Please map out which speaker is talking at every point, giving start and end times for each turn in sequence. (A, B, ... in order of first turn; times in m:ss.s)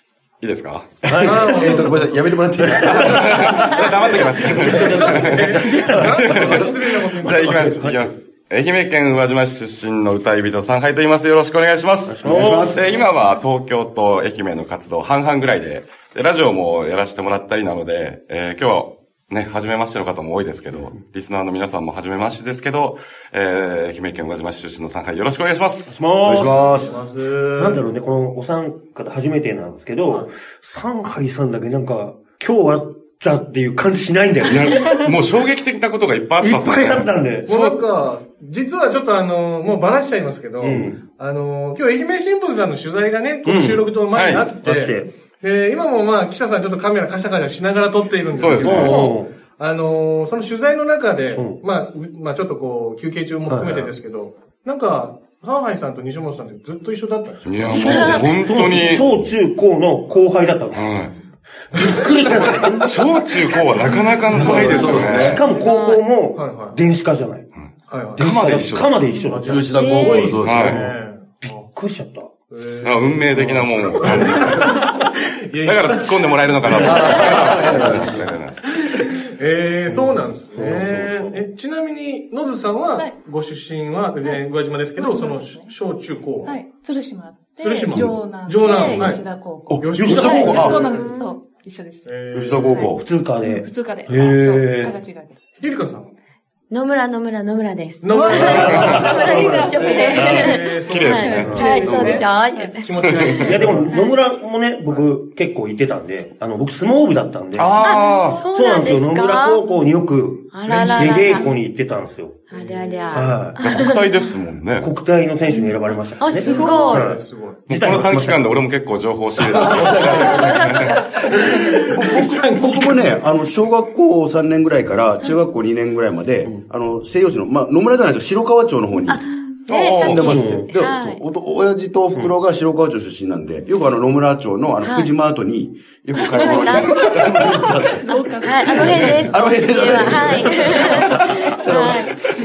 0:00.4-0:01.0 A
0:01.1-0:01.6 B
0:01.1-0:05.3 C
0:01.2-0:02.2 D
0:02.6-0:03.7 B
0:03.0-0:25.9 A
0:04.4-0:06.7 B
0:04.6-0:07.8 D
0:06.3-0:06.6 C
0:07.2-0:08.1 B
0:07.3-0:07.9 C
0:12.0-0:12.8 B
0:12.2-0:12.9 C
0:12.8-0:13.4 E
0:25.9-0:26.7 B
0:26.2-0:26.9 C
0:26.6-0:27.8 D
0:27.6-0:34.8 B
0:34.5-0:37.8 A
0:36.4-0:37.5 B
0:37.5-0:58.0 D
0:40.6-0:41.0 B
0:43.4-0:43.8 B
0:44.1-0:44.5 A
0:44.6-0:45.1 B
0:48.3-0:49.1 A
0:48.5-0:49.3 B
0:51.4-0:51.6 B
0:53.5-0:53.9 B
0:57.4-0:59.1 A
0:57.7-1:01.0 B
0:57.8-0:58.4 E
1:00.7-1:01.1 A
1:01.7-1:05.4 C
1:01.7-1:02.0 D
1:01.8-1:02.7 B
1:02.8-1:05.4 A
1:04.3-1:05.3 D
1:04.4-1:07.5 B
1:05.4-1:06.1 E
1:06.3-1:06.8 D
1:07.6-1:09.1 A
1:07.9-1:08.3 D
1:08.2-1:12.3 B
1:09.1-1:11.7 D
1:09.4-1:10.8 C
1:09.7-1:10.4 E
1:10.4-1:10.8 A
1:12.5-1:17.6 D
1:12.8-1:14.9 A
1:13.4-1:13.7 B
1:15.6-1:18.7 A
1:16.7-1:18.4 C
1:17.7-1:18.1 F
1:18.8-1:26.6 D
1:19.9-1:21.4 B
1:24.2-1:25.7 F
1:26.4-1:32.2 F
1:27.6-1:31.1 D
1:29.7-1:30.9 C
1:30.0-1:30.5 B
1:30.9-1:31.4 E
1:32.0-1:32.9 D
1:32.3-1:33.0 C
1:33.0-1:35.0 B
1:33.4-1:35.6 F
1:35.6-1:36.1 D
1:36.7-1:44.1 E
1:38.0-1:42.3 D
1:38.1-1:40.4 F
1:40.1-1:40.4 B
1:40.3-1:41.6 A
1:40.9-1:42.7 F
1:41.4-1:42.2 B
1:42.8-1:44.0 D
1:43.0-1:43.5 A
1:43.3-1:47.7 B
1:47.6-1:48.4 A
1:47.8-1:49.7 E
1:47.8-1:48.1 F
1:48.5-1:52.4 B
1:50.5-1:51.6 E
1:52.5-1:54.3 E
1:52.5-1:53.4 D
1:53.1-1:53.6 B
1:53.5-1:54.9 A
1:54.8-1:58.6 B
1:55.5-1:57.1 E
1:56.4-1:57.6 D
1:57.7-2:00.9 A
1:59.4-2:00.6 C
1:59.7-2:01.8 E
2:01.2-2:03.2 D
2:01.8-2:09.2 C
2:09.0-2:11.2 E
2:09.7-2:10.2 A
2:09.9-2:22.1 C
2:10.2-2:10.7 B
2:14.8-2:15.1 E
2:16.1-2:17.3 E
2:16.5-2:20.5 F
2:18.1-2:22.2 E